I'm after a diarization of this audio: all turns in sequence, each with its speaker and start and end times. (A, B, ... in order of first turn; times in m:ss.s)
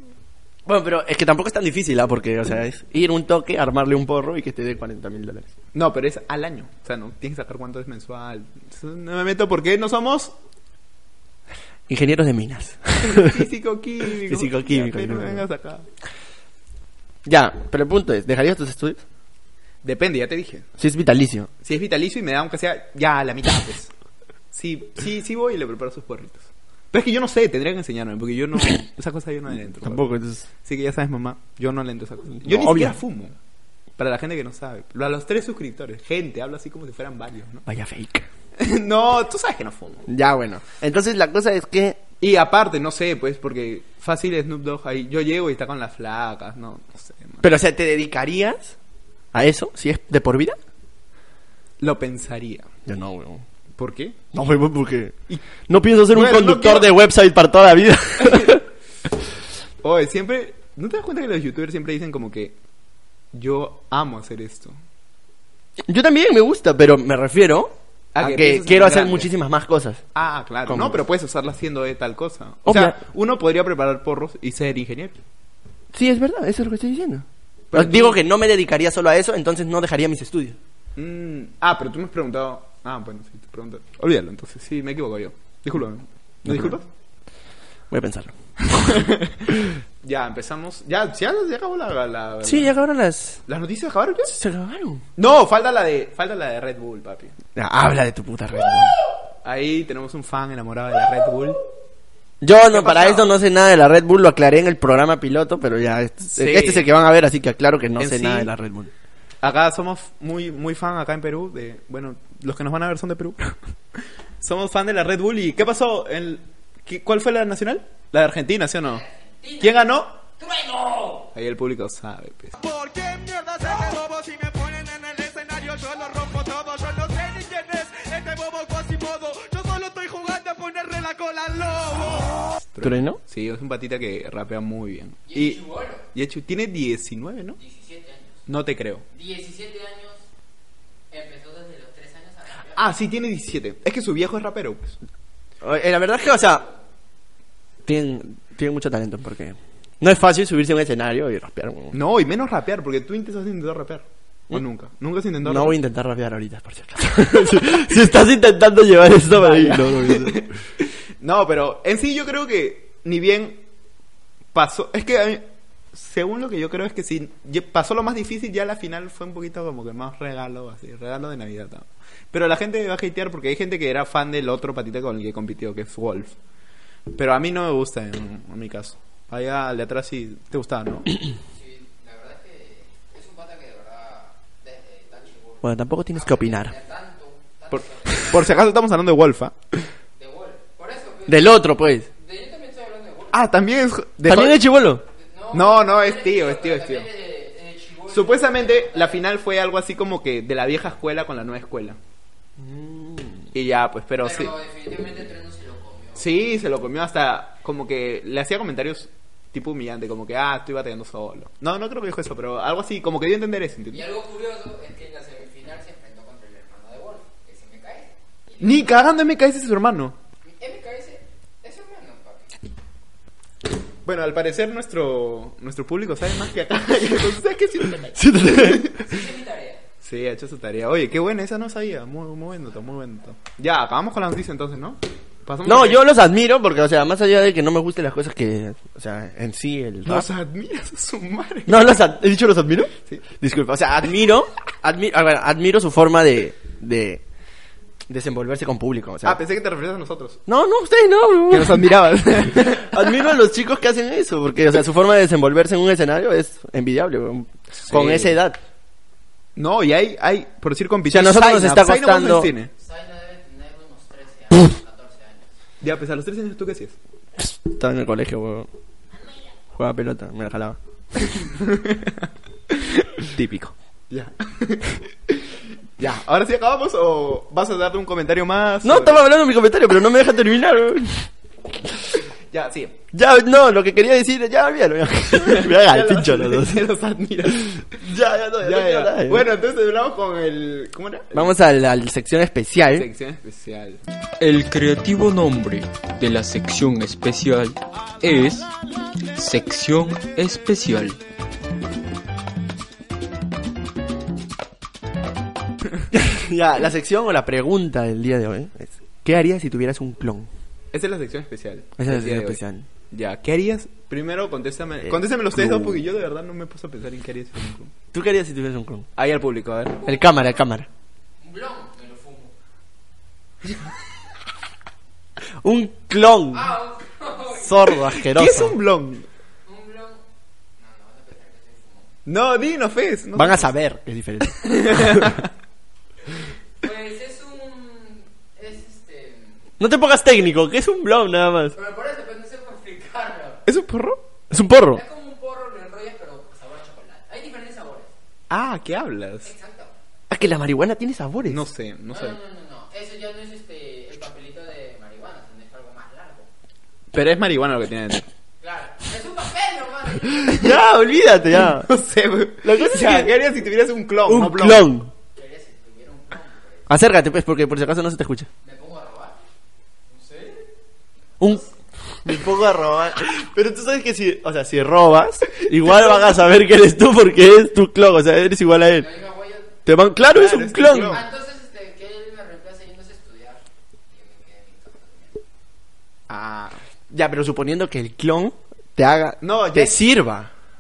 0:00.7-0:05.5 A
0:05.8-0:10.3 B
0:11.9-0:13.5 A
0:13.0-0:15.9 B
0:14.2-0:15.4 A
0:17.2-0:19.0 A
0:19.8-0:20.7 B
0:20.8-0:21.5 A
0:21.6-0:23.9 B
0:24.5-0:30.1 B
0:29.8-0:30.5 A
0:30.6-0:33.4 B
0:32.4-0:33.0 A
0:34.0-0:37.6 B
0:37.7-0:38.3 A
0:38.6-0:40.1 B
0:40.1-0:42.0 A
0:42.2-0:47.5 B
0:47.4-0:48.8 A
0:49.3-0:50.6 A
0:51.8-0:52.7 B
0:52.9-0:53.4 A
0:53.8-0:54.2 B
0:54.3-0:58.6 A
0:56.1-0:56.9 B
0:59.8-1:02.6 B
1:03.3-1:04.8 B
1:05.8-1:10.0 A
1:08.2-1:09.3 B
1:10.2-1:15.2 B
1:10.7-1:11.0 A
1:12.7-1:13.0 A
1:15.9-1:20.6 A
1:17.7-1:18.2 B
1:21.0-1:26.9 B
1:26.4-1:26.8 A
1:27.9-1:28.3 A
1:28.7-1:32.8 B
1:32.4-1:33.4 A
1:33.5-1:34.4 B
1:34.3-1:35.0 A
1:35.2-1:37.4 B
1:37.6-1:39.0 A
1:39.4-1:41.6 B
1:42.4-1:48.9 A
1:42.7-1:43.3 B
1:46.4-1:46.9 B
1:48.0-1:48.5 B
1:49.4-1:53.6 B
1:54.4-1:59.0 B
1:59.0-2:01.3 C
1:59.6-2:00.2 B
2:01.3-2:02.6 B
2:02.6-2:12.5 D
2:12.7-2:17.6 B
2:12.8-2:13.2 A
2:15.3-2:16.0 C
2:17.6-2:18.4 C
2:18.5-2:19.0 B
2:19.1-2:20.2 C
2:21.1-2:22.9 C
2:22.8-2:25.0 B
2:25.6-2:26.7 A
2:27.9-2:32.0 A
2:31.9-2:35.8 B
2:35.4-2:40.4 A
2:39.3-2:40.5 B
2:41.2-2:43.6 B
2:44.5-2:56.4 B
2:57.1-3:01.1 B
3:01.6-3:08.6 C
3:05.6-3:06.8 A
3:07.7-3:09.6 B
3:10.2-3:11.6 C
3:11.3-3:12.1 A
3:12.2-3:13.4 C
3:13.3-3:14.6 B
3:14.3-3:15.0 A
3:15.2-3:19.2 C
3:15.5-3:17.1 B
3:18.1-3:22.0 B
3:22.6-3:23.5 A
3:23.5-3:24.5 B
3:24.2-3:26.4 C
3:26.2-3:34.0 B
3:33.9-3:38.9 C
3:38.6-3:40.2 B
3:40.6-3:42.6 C
3:44.0-3:49.1 B
3:48.1-3:48.9 A
3:48.9-3:49.8 C
3:50.0-3:56.0 B
3:55.6-4:00.3 A
4:00.0-4:01.9 B
4:01.7-4:07.2 A
4:08.1-4:09.4 A
4:09.2-4:10.4 B
4:10.5-4:11.9 A
4:11.5-4:13.0 B
4:12.5-4:18.6 A
4:17.8-4:18.4 B
4:19.6-4:22.7 B
4:21.1-4:22.5 A
4:22.8-4:25.5 C
4:25.8-4:27.0 B
4:27.4-4:28.7 A
4:29.2-4:29.5 C
4:29.8-4:30.8 A
4:31.4-4:39.3 B
4:38.8-4:41.3 A
4:42.5-4:43.0 B
4:43.1-4:46.8 A
4:45.4-4:47.8 B
4:47.9-4:49.5 A
4:48.6-4:51.5 B
4:51.3-4:53.1 A
4:52.9-4:54.0 B
4:54.4-4:58.7 E
4:59.4-5:01.2 E
5:06.1-5:10.5 A
5:10.9-5:12.6 B
5:12.0-5:12.9 A
5:13.1-5:17.9 B
5:15.0-5:16.0 A
5:18.1-5:19.1 A
5:19.2-5:20.0 B
5:20.0-5:20.9 A
5:21.4-5:22.5 C
5:25.6-5:26.7 A
5:26.5-5:28.0 C
5:27.6-5:28.8 A
5:28.3-5:29.3 B
5:29.7-5:30.2 C
5:30.8-5:32.1 C
5:32.3-5:33.7 B
5:33.4-5:35.4 A
5:34.6-5:35.5 B
5:36.8-5:39.6 C
5:39.8-5:41.8 A
5:41.8-5:43.6 C
5:43.7-5:44.2 B
5:44.5-5:45.0 A
5:44.9-5:48.1 C
5:48.5-5:49.5 B
5:49.4-5:49.9 C
5:50.3-5:51.6 A
5:51.5-5:52.4 B
5:52.1-5:56.5 C
5:57.1-5:58.2 B
5:58.6-6:00.8 C
6:00.4-6:01.9 A
6:01.8-6:04.9 B
6:02.6-6:03.3 A
6:04.3-6:05.1 A
6:05.4-6:06.9 C
6:06.9-6:08.5 A
6:08.6-6:09.4 C
6:10.1-6:10.6 C
6:11.4-6:11.6 C
6:12.2-6:19.1 A
6:15.8-6:16.2 B
6:19.0-6:19.8 C
6:19.9-6:21.2 A
6:20.3-6:21.2 B
6:21.0-6:25.4 C
6:26.3-6:26.8 B
6:27.1-6:30.5 A
6:29.4-6:30.0 B